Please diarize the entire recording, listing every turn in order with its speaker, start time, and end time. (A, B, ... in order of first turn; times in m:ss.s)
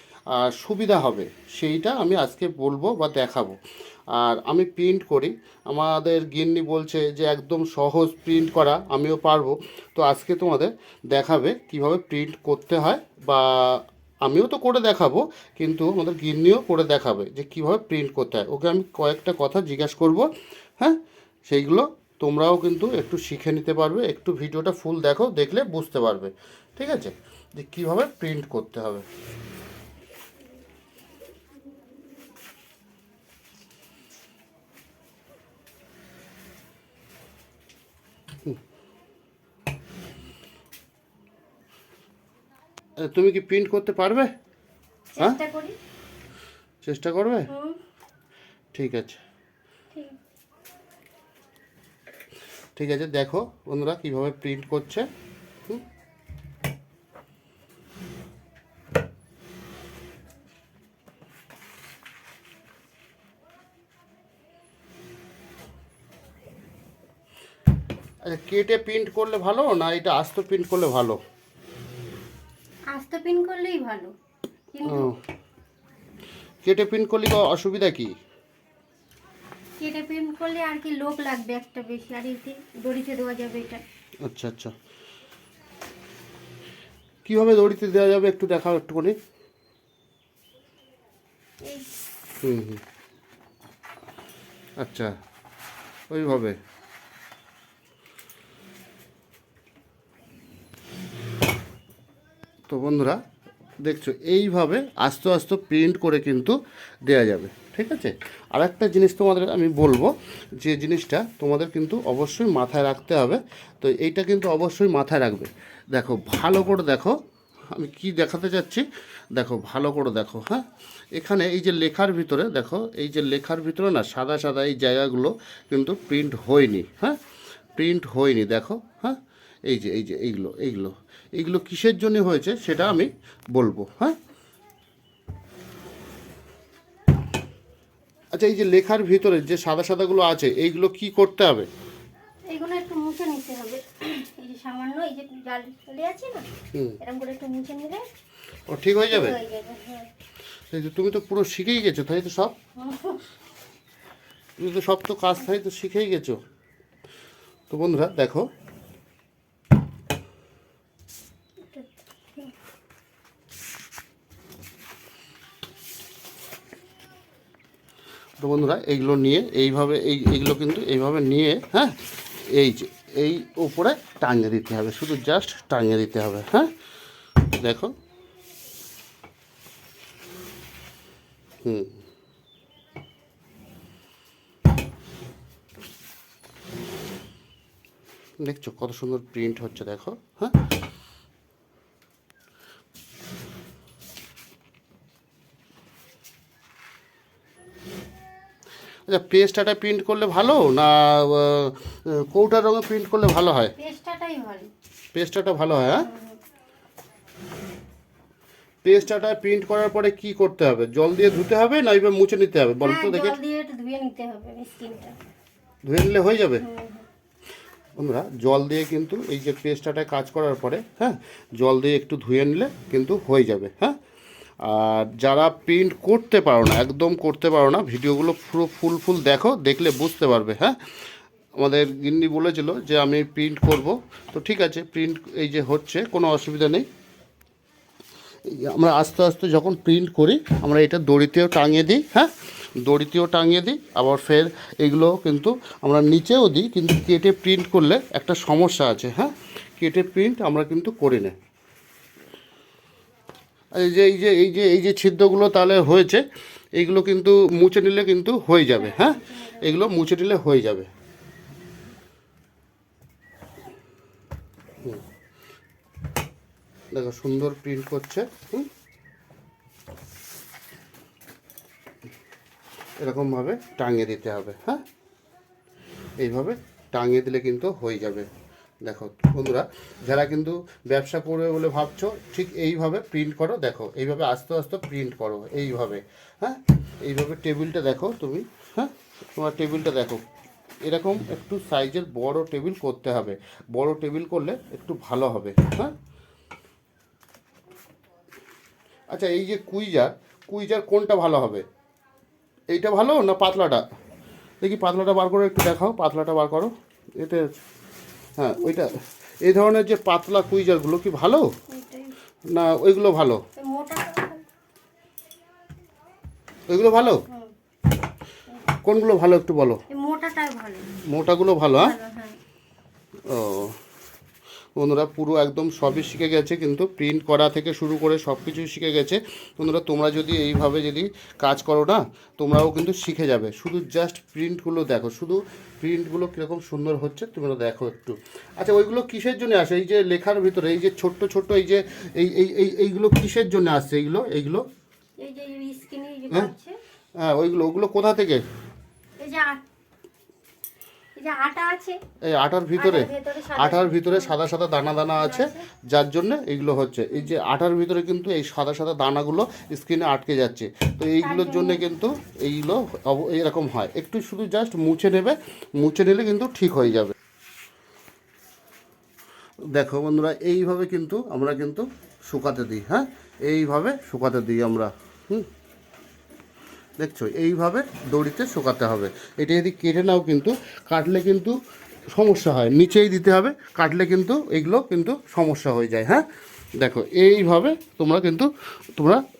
0:00.3-0:03.6 A
0:04.1-0:20.3 A
0:20.8-0:29.0 A
0:43.0-0:44.3 A
0:45.1-0:45.8 B
0:46.8-0:47.5 A
0:47.5-0:47.8 B
0:48.7-0:49.2 A
0:52.8-0:55.1 A
1:08.2-1:11.2 A
1:12.9-1:14.1 B
1:14.7-1:15.1 B
1:14.8-1:15.2 A
1:16.6-1:18.1 A
1:19.8-1:23.8 B
1:24.2-1:24.7 A
1:27.2-1:29.2 A
1:31.6-1:31.9 B
1:32.4-1:32.8 A
1:34.8-1:35.2 A
1:36.1-1:36.6 A
1:42.7-1:43.2 A
1:43.8-1:46.5 A
1:47.0-1:57.2 A
1:57.7-1:58.8 A
1:59.4-2:07.2 A
2:07.8-2:14.1 A
2:18.3-2:21.7 A
2:22.5-2:26.4 B
2:27.0-2:28.0 B
2:28.7-2:29.4 A
2:29.1-2:30.1 B
2:30.7-2:32.5 A
2:32.8-2:33.3 B
2:34.6-2:36.4 A
2:37.7-2:38.5 A
2:41.7-2:42.5 B
2:48.4-2:56.7 A
2:57.5-2:57.9 A
3:01.6-3:02.0 A
3:08.4-3:10.6 A
3:19.1-3:23.7 A
3:23.8-3:24.7 B
3:25.1-3:26.1 A
3:26.0-3:26.4 B
3:28.8-3:33.4 A
3:32.8-3:35.2 B
3:35.8-3:36.6 A
3:36.6-3:37.0 B
3:38.0-3:44.0 A
3:44.6-3:50.8 A
3:51.6-3:56.9 A
3:58.5-4:11.3 A
4:13.7-4:16.2 A
4:16.8-4:20.9 A
4:18.8-4:19.9 B
4:26.9-4:28.7 A
4:33.0-4:34.8 A
4:36.2-4:38.3 A
4:38.8-4:50.2 A
4:50.8-4:55.9 A
4:59.1-5:01.6 A
5:02.7-5:03.8 A
5:04.6-5:07.5 A
5:08.4-5:11.5 A
5:11.7-5:12.1 B
5:12.5-5:13.4 A
5:13.6-5:14.4 B
5:16.7-5:17.2 A
5:18.8-5:19.8 A
5:19.9-5:20.9 B
5:21.1-5:21.9 A
5:21.8-5:22.4 B
5:23.3-5:23.8 A
5:24.8-5:44.7 A
5:45.2-5:46.8 B
5:47.2-5:48.4 A
5:49.2-5:49.6 B
5:51.2-5:52.0 B
5:52.2-6:07.1 A
5:52.8-5:54.3 B
5:55.2-5:55.7 B
6:01.2-6:01.8 B
6:09.7-6:15.5 A
6:17.0-6:21.6 A
6:22.1-6:26.2 A
6:26.8-6:29.2 A